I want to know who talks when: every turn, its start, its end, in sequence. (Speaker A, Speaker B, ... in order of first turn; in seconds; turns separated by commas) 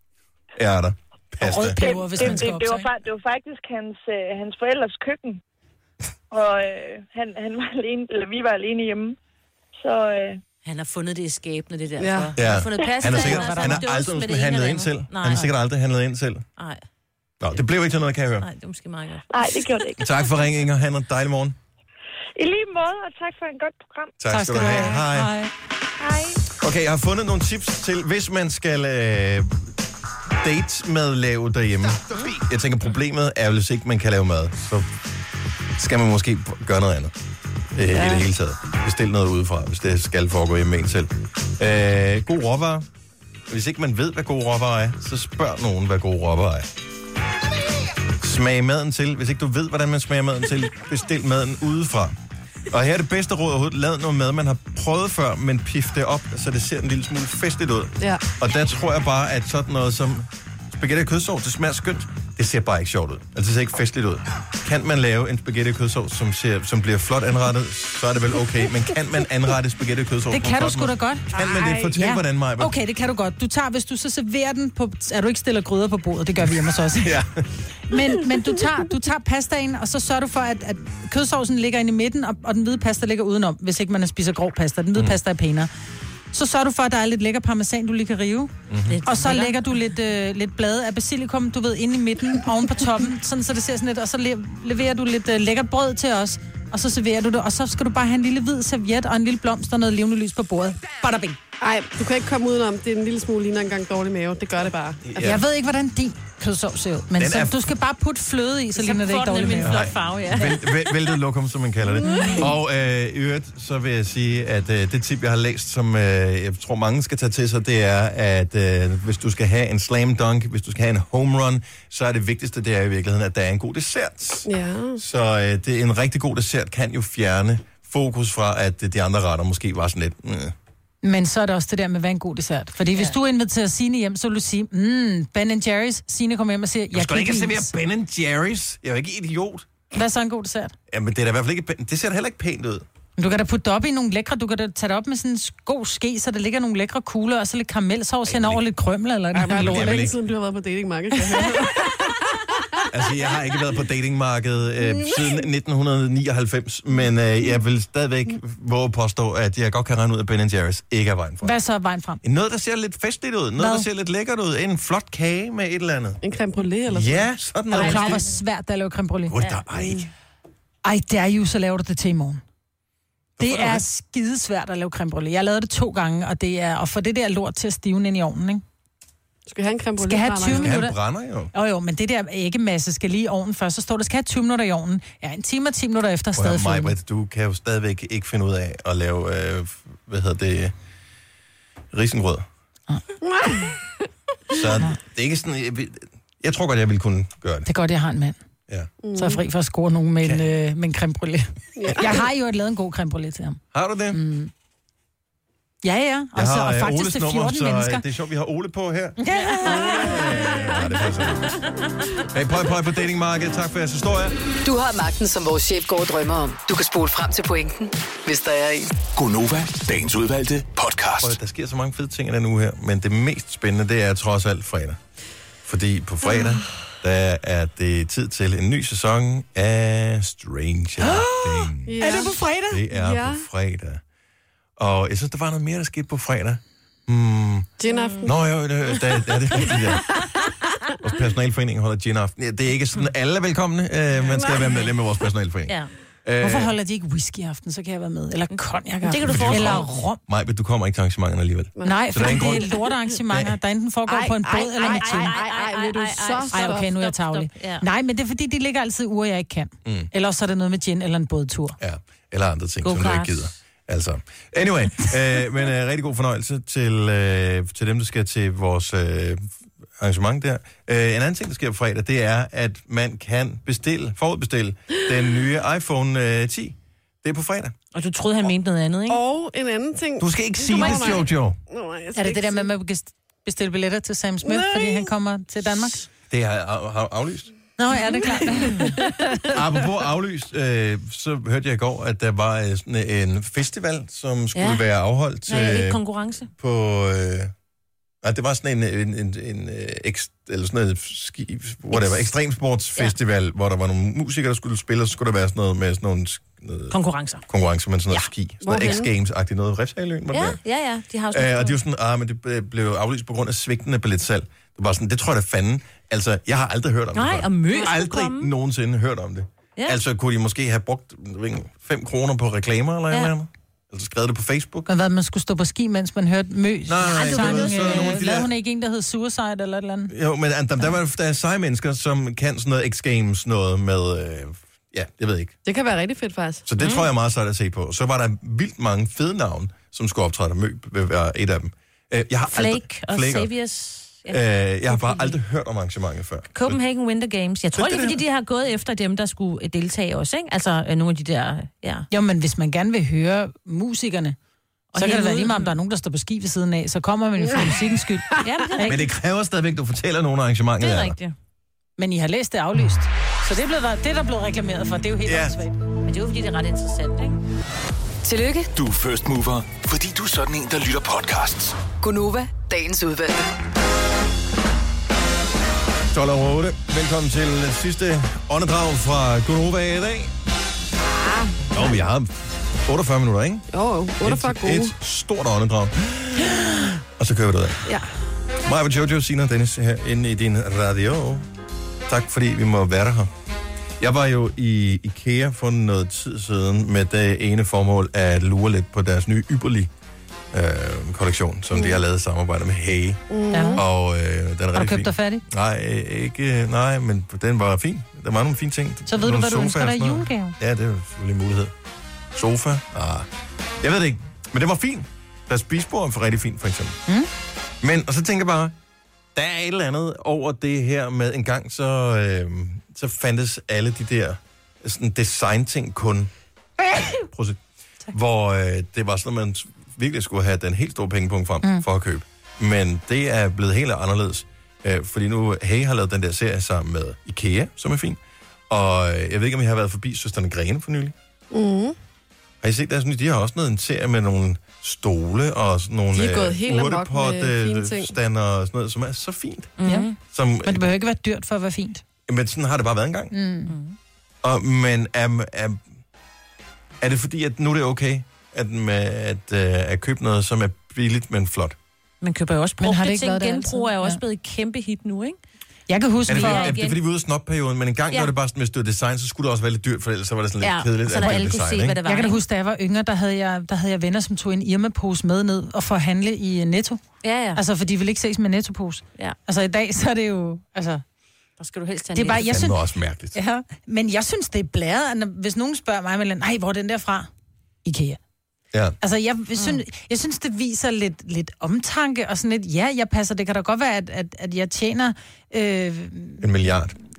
Speaker A: 0.6-2.4, Speaker B: 1.4-2.9, Speaker C: 1.7-5.4, Speaker C: 6.3-9.2, Speaker C: 9.8-10.4, Speaker D: 10.6-15.5, Speaker E: 12.0-12.3, Speaker A: 12.4-16.4, Speaker B: 13.1-13.8, Speaker D: 16.6-16.8, Speaker A: 17.4-18.5, Speaker D: 18.4-19.7, Speaker C: 19.3-20.1, Speaker A: 20.0-21.6, Speaker C: 22.4-24.1, Speaker A: 24.2-25.4, Speaker B: 24.3-25.5, Speaker C: 26.0-26.4, Speaker A: 26.5-29.7, Speaker A: 30.4-34.9, Speaker A: 35.8-37.1, Speaker A: 37.7-42.9, Speaker A: 43.5-46.7, Speaker A: 48.2-52.1, Speaker A: 52.7-72.8, Speaker B: 70.3-77.2, Speaker A: 76.9-77.5, Speaker B: 77.9-85.7, Speaker B: 86.3-88.5, Speaker A: 88.7-89.0, Speaker D: 88.9-89.6, Speaker B: 89.1-101.4, Speaker E: 101.6-105.0, Speaker A: 105.0-105.4, Speaker B: 105.2-109.8, Speaker A: 107.2-107.6, Speaker D: 108.8-110.7, Speaker A: 109.6-130.5, Speaker E: 111.9-112.5, Speaker B: 112.1-112.3, Speaker E: 124.5-125.0, Speaker B: 131.0-137.7, Speaker A: 136.9-139.7, Speaker B: 139.9-140.7, Speaker A: 140.9-142.8, Speaker B: 143.2-150.1, Speaker A: 148.2-148.6, Speaker E: 149.3-152.8, Speaker A: 149.5-150.2, Speaker A: 152.9-161.6, Speaker B: 161.4-162.2, Speaker A: 162.2-166.2, Speaker B: 163.6-163.9, Speaker E: 166.2-167.3, Speaker A: 166.9-168.3, Speaker B: 167.7-169.5, Speaker D: 167.8-168.2, Speaker A: 169.3-170.1, Speaker B: 170.8-172.4, Speaker A: 173.4-173.8, Speaker B: 173.4-178.6, Speaker E: 179.5-180.8, Speaker B: 180.0-181.0, Speaker A: 180.4-181.5, Speaker B: 181.5-186.9, Speaker A: 186.3-190.8, Speaker A: 191.9-192.5, Speaker E: 193.2-193.8, Speaker A: 194.5-197.7, Speaker B: 197.7-198.4, Speaker E: 199.0-199.4, Speaker B: 199.2-203.6, Speaker E: 201.8-202.2, Speaker A: 203.7-204.2, Speaker B: 204.1-204.5, Speaker B: 205.8-208.0, Speaker A: 206.3-211.6, Speaker B: 209.2-210.2, Speaker A: 212.2-214.3, Speaker F: 214.6-218.9, Speaker G: 219.0-221.4, Speaker A: 221.2-225.0, Speaker A: 225.7-234.0, Speaker E: 226.3-226.6, Speaker B: 231.0-232.8, Speaker E: 231.8-233.4, Speaker A: 234.8-237.7, Speaker E: 237.8-238.3, Speaker D: 237.9-238.3, Speaker A: 238.2-240.3, Speaker A: 241.0-246.8, Speaker E: 244.3-244.9, Speaker B: 246.4-250.2, Speaker D: 248.5-249.9, Speaker A: 249.2-252.7, Speaker E: 251.8-252.6, Speaker B: 251.8-255.3, Speaker A: 253.3-253.6, Speaker E: 254.1-256.9, Speaker D: 254.7-257.9, Speaker B: 256.5-261.8, Speaker A: 259.9-260.1, Speaker A: 261.8-269.4, Speaker D: 262.8-263.5, Speaker A: 270.0-277.8, Speaker D: 277.9-279.2, Speaker E: 279.1-282.7, Speaker A: 280.2-281.6, Speaker B: 282.1-286.1, Speaker E: 284.4-285.1, Speaker A: 286.3-287.5, Speaker B: 287.8-289.5, Speaker E: 288.4-289.5, Speaker A: 289.5-296.0, Speaker D: 294.5-294.8, Speaker D: 295.5-296.5, Speaker A: 296.5-297.5, Speaker A: 298.2-306.9, Speaker D: 306.9-307.4, Speaker A: 307.5-310.6, Speaker D: 308.1-309.0, Speaker E: 308.6-309.1, Speaker D: 310.3-311.8, Speaker A: 311.3-324.9, Speaker D: 317.1-318.5, Speaker B: 324.9-330.1, Speaker A: 326.9-328.5, Speaker D: 327.0-328.3, Speaker A: 330.1-335.6, Speaker E: 335.6-336.6, Speaker A: 336.6-343.5, Speaker D: 336.8-337.1, Speaker D: 342.5-345.4, Speaker A: 344.3-346.8, Speaker D: 346.5-352.1, Speaker A: 347.8-348.2, Speaker B: 352.1-354.4, Speaker D: 354.9-355.7, Speaker B: 355.0-359.0, Speaker D: 358.4-359.0, Speaker A: 358.8-361.2, Speaker D: 360.8-361.4, Speaker B: 362.0-365.8, Speaker A: 365.2-365.6, Speaker D: 366.0-367.4, Speaker F: 368.2-368.7, Speaker G: 368.8-371.9, Speaker F: 372.0-373.5, Speaker A: 376.1-380.3, Speaker E: 381.2-381.8, Speaker A: 381.7-382.3, Speaker A: 382.9-383.6, Speaker E: 383.7-384.9, Speaker A: 384.2-387.9, Speaker A: 388.6-391.5, Speaker A: 392.1-393.3, Speaker A: 394.0-399.9, Speaker A: 400.5-403.2, Speaker E: 401.7-402.0, Speaker E: 403.3-403.8, Speaker B: 403.5-403.8, Speaker A: 403.7-411.7, Speaker B: 404.7-405.4, Speaker B: 409.1-410.6, Speaker A: 412.3-413.3, Speaker A: 413.8-417.0, Speaker A: 417.8-418.8, Speaker A: 419.4-426.3, Speaker A: 426.9-441.1, Speaker E: 441.5-442.0, Speaker A: 442.6-449.8, Speaker E: 446.1-448.1, Speaker D: 449.8-450.1, Speaker B: 449.9-450.1, Speaker A: 450.3-450.9, Speaker B: 450.6-452.0, Speaker A: 452.3-453.3, Speaker B: 453.3-453.7, Speaker D: 453.7-454.0, Speaker A: 454.4-455.8, Speaker A: 457.0-461.8, Speaker D: 462.2-465.4, Speaker B: 462.8-464.2, Speaker B: 465.9-466.7, Speaker A: 466.3-472.0, Speaker D: 466.3-467.0, Speaker D: 470.6-472.4, Speaker B: 472.0-477.0, Speaker D: 477.2-477.6, Speaker B: 477.5-481.0, Speaker D: 481.6-482.6, Speaker B: 482.1-482.8, Speaker A: 482.4-483.4, Speaker B: 483.4-487.3, Speaker B: 487.9-488.2, Speaker B: 489.0-496.5, Speaker A: 496.4-497.0